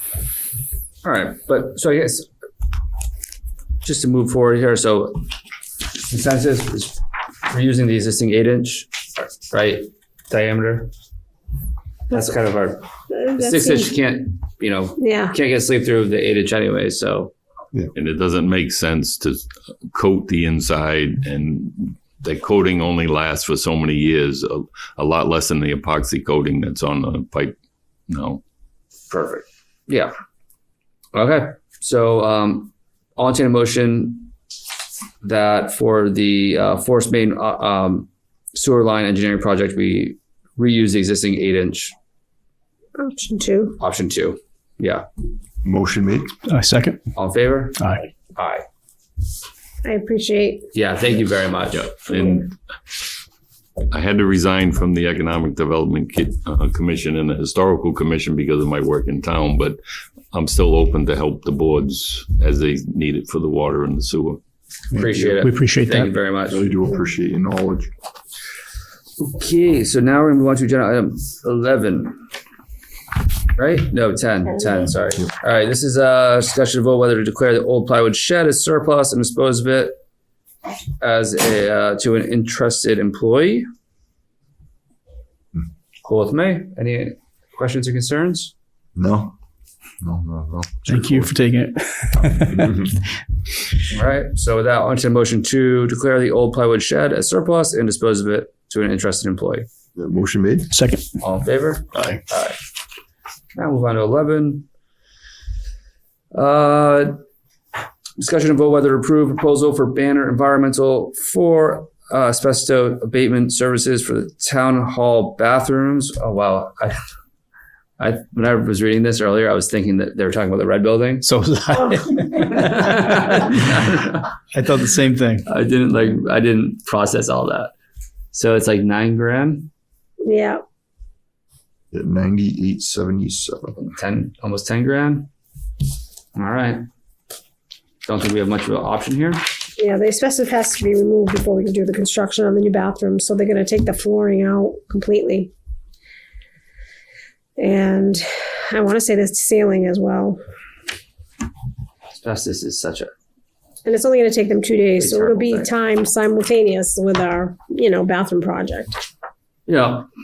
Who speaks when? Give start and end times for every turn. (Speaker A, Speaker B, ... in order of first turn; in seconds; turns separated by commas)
Speaker A: 1.0-2.3, Speaker A: 3.8-5.2, Speaker A: 6.1-10.9, Speaker A: 12.1-17.3, Speaker B: 13.1-13.9, Speaker B: 15.0-15.3, Speaker C: 17.9-27.6, Speaker C: 28.1-28.4, Speaker A: 29.1-30.1, Speaker A: 31.1-34.3, Speaker A: 35.2-41.9, Speaker B: 43.0-43.8, Speaker A: 43.8-45.0, Speaker D: 45.6-46.3, Speaker E: 46.5-47.0, Speaker A: 47.1-47.8, Speaker E: 47.8-48.0, Speaker A: 48.3-48.6, Speaker B: 49.8-50.7, Speaker A: 50.7-52.5, Speaker C: 53.9-59.8, Speaker C: 60.3-64.4, Speaker D: 64.9-65.5, Speaker A: 64.9-66.6, Speaker E: 65.4-66.1, Speaker D: 66.5-67.9, Speaker A: 69.2-72.2, Speaker A: 73.6-80.0, Speaker A: 81.0-83.7, Speaker A: 86.0-88.5, Speaker D: 89.0-89.3, Speaker D: 90.0-91.3, Speaker E: 90.8-92.7, Speaker D: 92.5-92.9, Speaker A: 93.9-99.7, Speaker D: 99.9-100.7, Speaker E: 100.7-101.0, Speaker A: 101.2-102.6, Speaker A: 103.5-104.7, Speaker A: 106.3-107.2, Speaker A: 108.2-117.0, Speaker A: 118.0-121.2, Speaker E: 121.2-123.3, Speaker A: 122.3-124.3, Speaker E: 124.5-125.4, Speaker A: 125.5-127.7, Speaker A: 128.3-129.7, Speaker B: 130.2-130.6, Speaker D: 131.9-133.8, Speaker A: 133.8-135.3, Speaker A: 136.3-136.8, Speaker A: 138.0-139.4, Speaker B: 139.8-145.5, Speaker B: 147.6-150.4, Speaker A: 152.1-153.1, Speaker B: 153.8-158.9, Speaker A: 155.0-155.7, Speaker A: 159.7-160.1